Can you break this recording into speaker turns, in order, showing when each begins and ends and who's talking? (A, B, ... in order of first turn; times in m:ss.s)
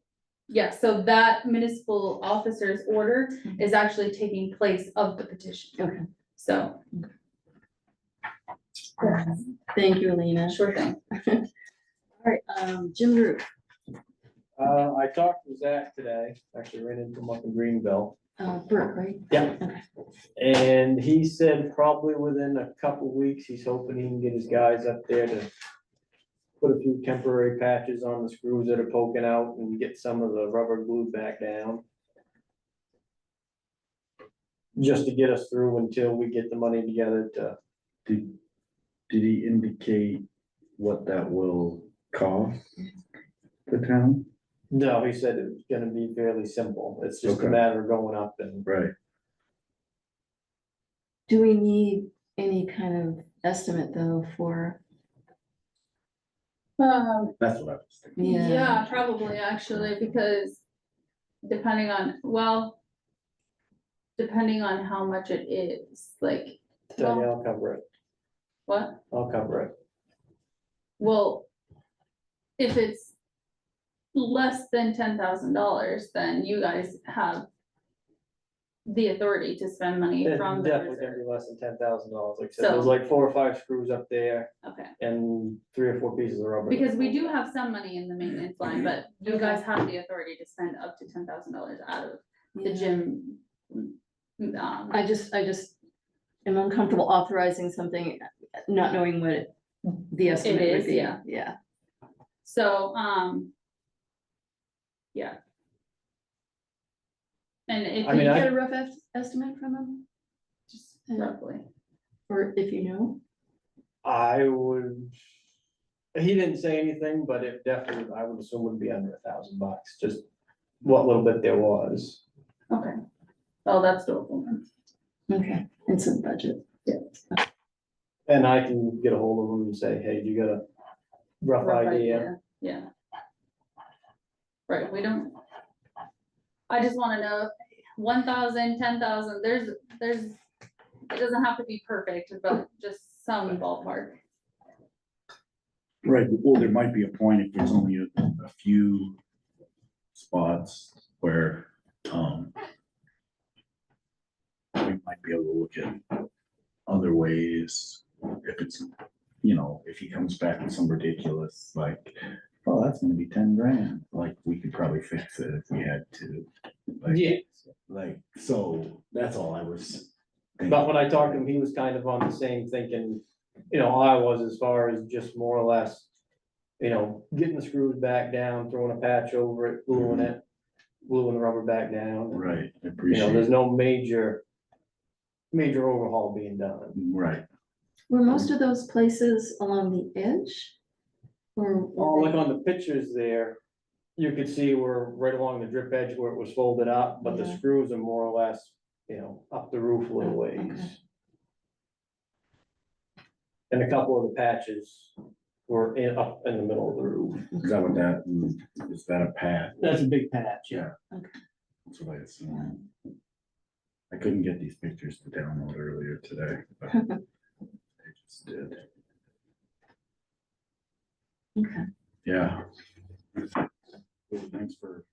0:00.5-0:05.8 A
0:05.8-0:06.0 B
0:06.4-0:06.8 A
0:09.0-0:09.4 A
0:09.0-0:10.5 B
0:10.4-0:11.0 A
0:11.1-0:11.4 B
0:12.2-0:13.5 B
0:14.6-0:18.1 C
0:18.4-0:19.8 B
0:20.4-0:25.5 C
0:26.6-0:31.8 C
0:34.8-0:37.6 C
0:38.0-0:38.4 D
0:39.1-0:40.2 D
0:40.8-0:42.7 D
0:43.7-0:44.2 D
0:44.7-0:48.7 C
0:47.2-0:47.6 D
0:48.6-0:48.9 D
0:51.3-0:54.8 B
0:56.8-0:57.3 A
0:57.4-1:00.1 D
0:58.2-0:58.8 B
0:58.2-1:00.6 A
1:01.4-1:02.8 A
1:04.2-1:07.3 A
1:06.9-1:07.8 C
1:08.7-1:09.0 A
1:09.1-1:09.7 C
1:11.0-1:11.4 A
1:12.6-1:13.1 A
1:14.1-1:17.4 A
1:18.8-1:21.2 A
1:20.2-1:27.3 C
1:22.6-1:22.9 A
1:24.6-1:24.9 A
1:26.7-1:35.0 A
1:29.3-1:29.6 B
1:32.5-1:33.0 B
1:34.9-1:35.7 B
1:36.4-1:41.5 B
1:40.4-1:41.2 A
1:42.4-1:43.5 A
1:47.7-1:48.4 A
1:48.0-1:48.5 C
1:48.2-1:50.0 B
1:50.7-1:51.6 A
1:51.1-1:51.3 B
1:52.3-1:53.2 B
1:54.0-1:55.1 C
1:56.1-2:00.2 C
2:00.8-2:02.2 C
2:02.7-2:03.0 A
2:03.6-2:04.6 A
2:05.3-2:06.6 B
2:08.3-2:10.6 C
2:11.4-2:12.3 C
2:11.6-2:12.9 A
2:14.7-2:15.4 A
2:16.7-2:20.4 A
2:21.1-2:24.2 A
2:26.0-2:29.2 D
2:30.1-2:32.5 D
2:34.8-2:36.1 D
2:36.9-2:38.9 D
2:39.4-2:47.3 D
2:47.0-2:47.5 C
2:47.9-2:51.4 D
2:50.7-2:56.0 C
2:56.8-3:00.4 C
2:59.9-3:00.3 D
3:01.0-3:02.5 C
3:02.3-3:03.5 D
3:03.1-3:04.4 C
3:05.5-3:07.0 C
3:06.9-3:07.4 D
3:08.1-3:10.7 B
3:11.6-3:12.4 B
3:12.0-3:13.6 C
3:14.2-3:20.9 C
3:17.2-3:17.6 B
3:20.2-3:20.9 B
3:23.7-3:25.1 C
3:25.7-3:27.5 C
3:27.6-3:29.9 D
3:29.8-3:30.9 C
3:31.9-3:32.8 D
3:34.1-3:37.0 D
3:38.0-3:38.8 D
3:41.6-3:41.9 B
3:42.2-3:42.6 D
3:44.3-3:45.0 D